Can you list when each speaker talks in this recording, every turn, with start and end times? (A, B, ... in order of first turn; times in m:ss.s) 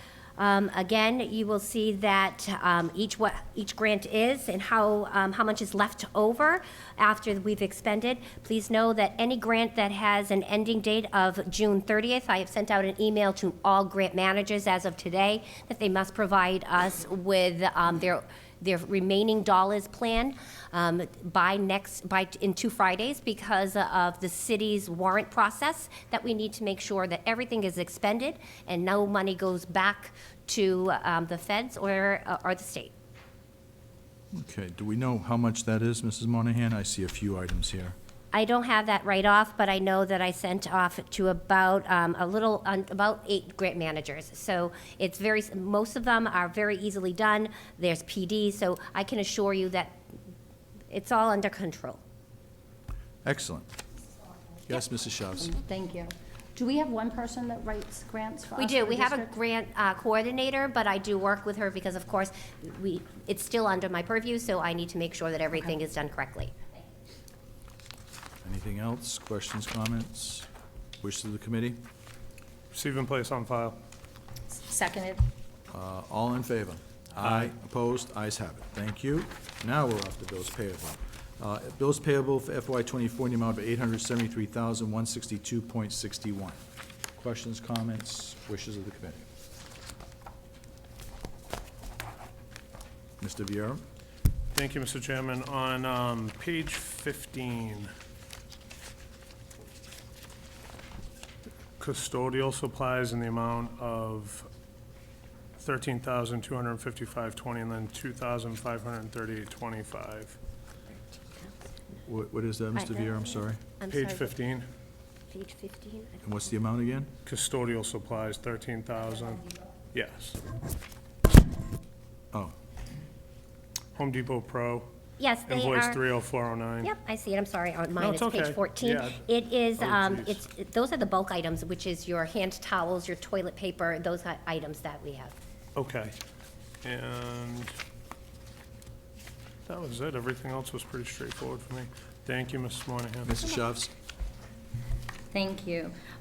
0:00.4-0:32.9 A
0:34.3-0:38.0 B
0:38.3-0:50.0 A
0:50.9-0:52.0 A
0:53.2-0:53.7 B
0:54.7-0:55.6 B
0:55.4-0:59.3 C
0:58.6-1:06.5 A
1:08.4-1:10.5 B
1:11.0-1:11.8 B
1:12.7-1:13.8 D
1:14.5-1:15.2 C
1:15.7-1:26.6 B
1:17.2-1:17.5 D
1:27.2-1:29.3 B
1:33.2-1:33.8 B
1:34.5-1:37.9 D
1:41.8-1:44.5 D
1:45.6-1:50.4 D
1:52.1-1:53.6 B
1:52.8-1:53.2 A
1:53.8-1:54.3 A
1:53.9-1:54.7 D
1:55.3-1:56.2 A
1:56.2-1:57.1 B
1:57.2-2:00.4 D
2:04.0-2:04.9 D
2:05.2-2:06.0 A
2:05.5-2:06.9 D
2:06.8-2:15.3 A
2:08.0-2:09.2 D
2:09.8-2:10.4 D
2:15.8-2:16.2 D
2:16.8-2:17.7 D
2:19.7-2:23.3 D
2:23.2-2:23.9 B
2:25.3-2:26.0 C